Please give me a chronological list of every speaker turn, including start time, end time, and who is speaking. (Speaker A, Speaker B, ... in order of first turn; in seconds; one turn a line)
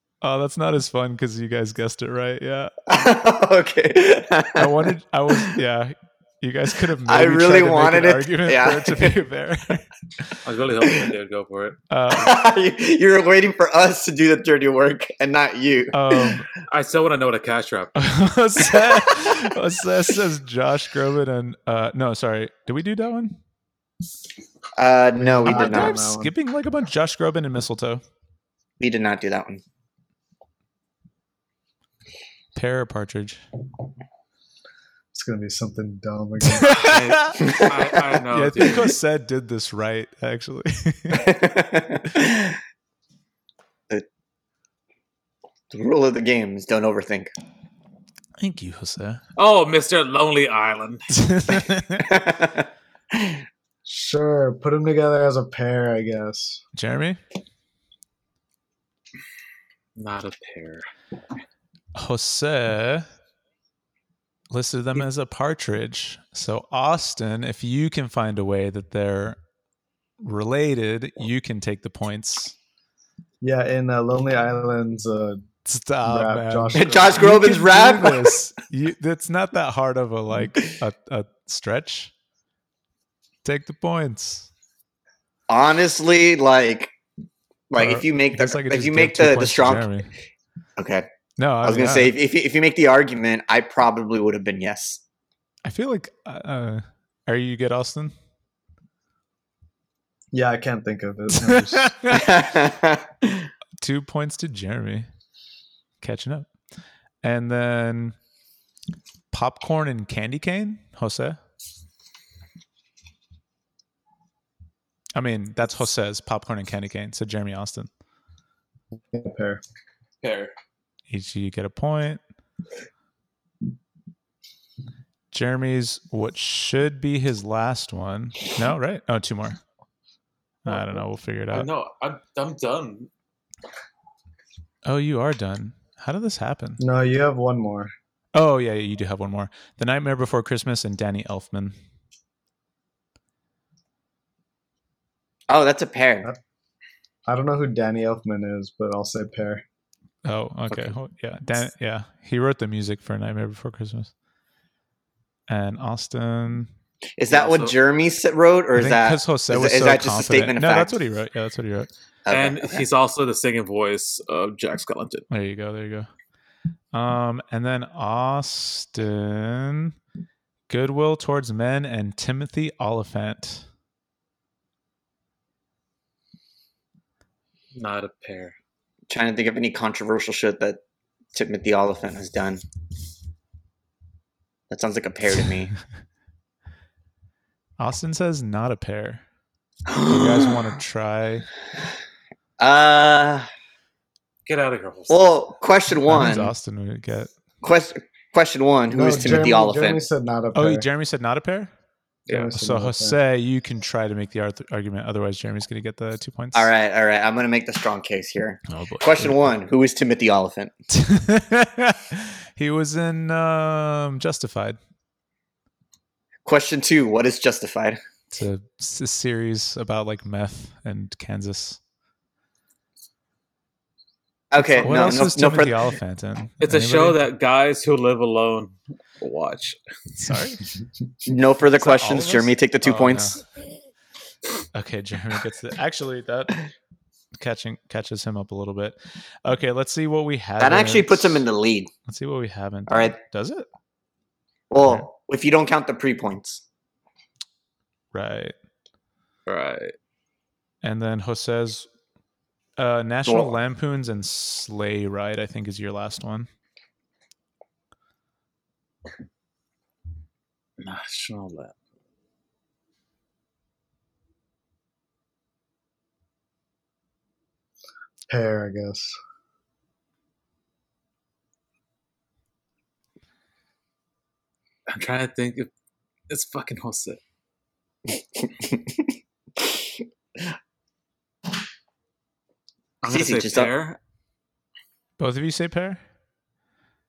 Speaker A: 0.2-2.7
Speaker B: 2.9-5.5
Speaker A: 4.5-10.3
Speaker B: 7.0-9.2
Speaker C: 10.4-11.8
Speaker A: 11.9-12.3
Speaker B: 12.1-16.4
Speaker A: 15.9-16.5
Speaker C: 16.7-17.9
Speaker A: 17.9-23.4
Speaker B: 24.8-26.0
Speaker D: 25.2-26.3
Speaker A: 25.4-28.0
Speaker B: 28.8-29.6
Speaker A: 32.5-33.4
Speaker D: 35.1-36.8
Speaker A: 36.4-37.6
Speaker C: 36.6-38.9
Speaker B: 37.4-37.7
Speaker A: 38.3-41.3
Speaker B: 38.6-38.9
Speaker B: 41.1-42.6
Speaker B: 45.7-47.3
Speaker A: 48.4-49.2
Speaker C: 49.4-51.0
Speaker A: 51.1-52.1
Speaker B: 52.0-53.4
Speaker D: 53.8-56.6
Speaker A: 56.7-57.2
Speaker C: 60.0-60.9
Speaker A: 62.0-63.0
Speaker A: 64.5-69.4
Speaker A: 70.2-72.5
Speaker D: 73.4-75.4
Speaker A: 75.6-82.1
Speaker D: 76.0-77.3
Speaker B: 76.8-78.3
Speaker A: 83.4-84.5
Speaker B: 85.5-86.9
Speaker B: 87.7-89.9
Speaker A: 87.8-90.1
Speaker B: 90.8-91.1
Speaker A: 91.4-92.1
Speaker B: 91.6-95.0
Speaker A: 95.6-98.1
Speaker D: 100.3-101.9
Speaker A: 101.4-102.4
Speaker B: 102.1-103.4
Speaker A: 103.8-105.1
Speaker A: 106.0-106.5
Speaker A: 107.2-108.2
Speaker A: 109.3-111.4
Speaker A: 115.1-117.9
Speaker D: 118.9-119.6
Speaker C: 120.2-120.5
Speaker A: 121.1-122.2
Speaker A: 125.3-129.6
Speaker A: 130.6-131.7
Speaker C: 130.7-133.1
Speaker A: 134.8-136.8
Speaker D: 136.8-137.9
Speaker A: 138.3-141.8
Speaker B: 145.5-146.3
Speaker D: 147.3-149.6
Speaker A: 150.2-154.1
Speaker A: 155.5-156.7
Speaker B: 157.2-161.0
Speaker C: 157.3-157.8
Speaker A: 158.7-161.9
Speaker B: 162.2-162.8
Speaker C: 162.3-165.3
Speaker A: 165.3-166.1
Speaker A: 166.9-169.9
Speaker A: 170.7-173.6
Speaker C: 177.7-178.5
Speaker B: 179.1-180.8
Speaker B: 181.3-182.6
Speaker B: 184.7-185.7
Speaker A: 187.8-189.2
Speaker B: 189.9-190.7
Speaker A: 190.0-191.5
Speaker B: 192.6-193.5
Speaker C: 194.4-195.2
Speaker B: 195.1-196.5
Speaker A: 196.1-197.3
Speaker B: 197.6-200.0
Speaker D: 198.9-200.9
Speaker A: 200.5-201.7
Speaker C: 202.3-202.6
Speaker D: 202.3-203.2
Speaker A: 202.6-206.7
Speaker B: 206.5-210.7
Speaker A: 208.7-209.3
Speaker A: 210.9-214.8
Speaker B: 216.4-218.0
Speaker A: 218.3-221.8
Speaker B: 224.5-225.8
Speaker A: 224.7-227.2
Speaker C: 226.6-229.8
Speaker A: 230.2-230.6
Speaker B: 231.2-233.4
Speaker A: 231.7-233.4
Speaker A: 234.7-236.6
Speaker A: 237.3-241.4
Speaker B: 240.6-241.9
Speaker A: 242.1-243.7
Speaker B: 242.9-243.2
Speaker B: 244.7-246.6
Speaker A: 244.8-245.1
Speaker A: 248.1-248.5
Speaker C: 249.5-249.9
Speaker A: 250.8-251.9
Speaker A: 252.8-256.5
Speaker B: 253.2-253.5
Speaker C: 260.8-261.7
Speaker D: 268.3-269.1
Speaker C: 274.9-275.7
Speaker C: 276.3-277.2
Speaker B: 278.4-279.0
Speaker C: 283.0-284.0
Speaker B: 283.0-283.7
Speaker A: 285.2-286.0